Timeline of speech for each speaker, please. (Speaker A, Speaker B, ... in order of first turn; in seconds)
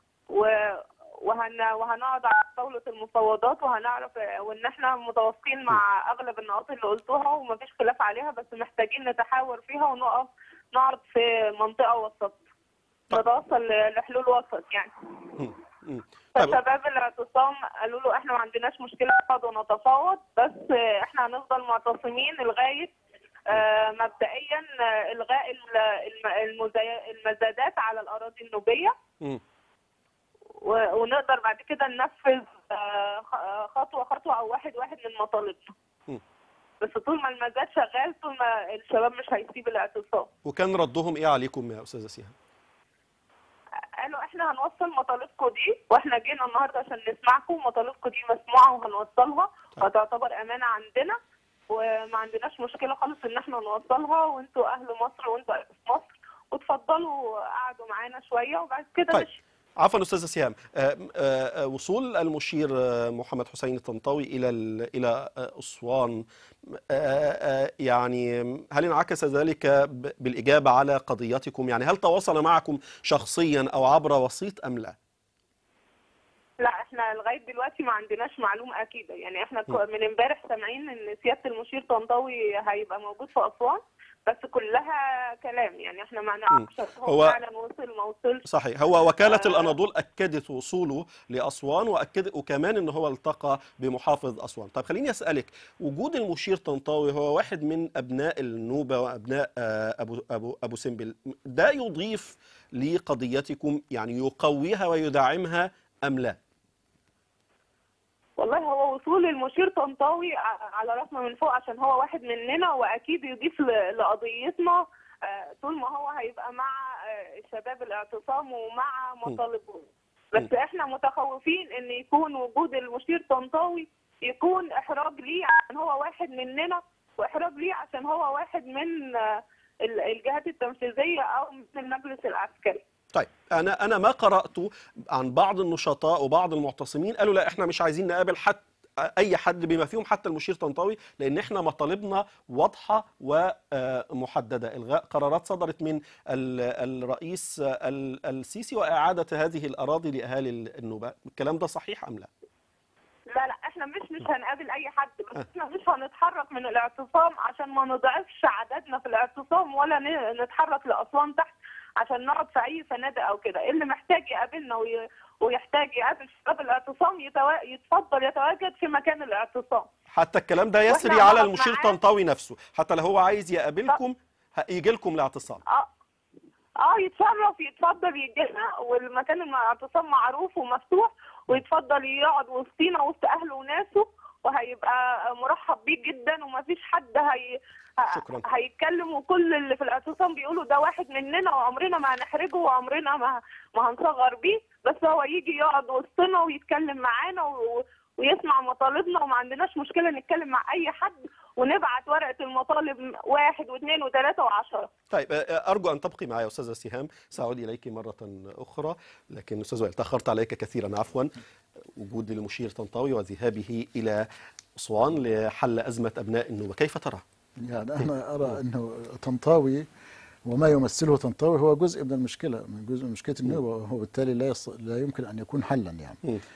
Speaker A: 0.3-12.4, 13.1-14.9, 16.4-22.9, 23.5-28.9, 30.6-35.7, 36.8-40.3, 44.0-51.2, 51.7-59.4, 76.6-88.4, 89.2-89.7, 108.4-132.8, 153.3-169.9, 170.9-172.0, 176.8-204.9
Speaker B: 15.4-16.6, 40.4-42.3, 59.8-75.0, 86.5-87.3, 88.5-106.4, 133.1-152.3, 170.1-175.6, 188.1-188.4, 205.1-211.3, 211.9-217.2
Speaker C: 217.6-219.9, 220.4-226.2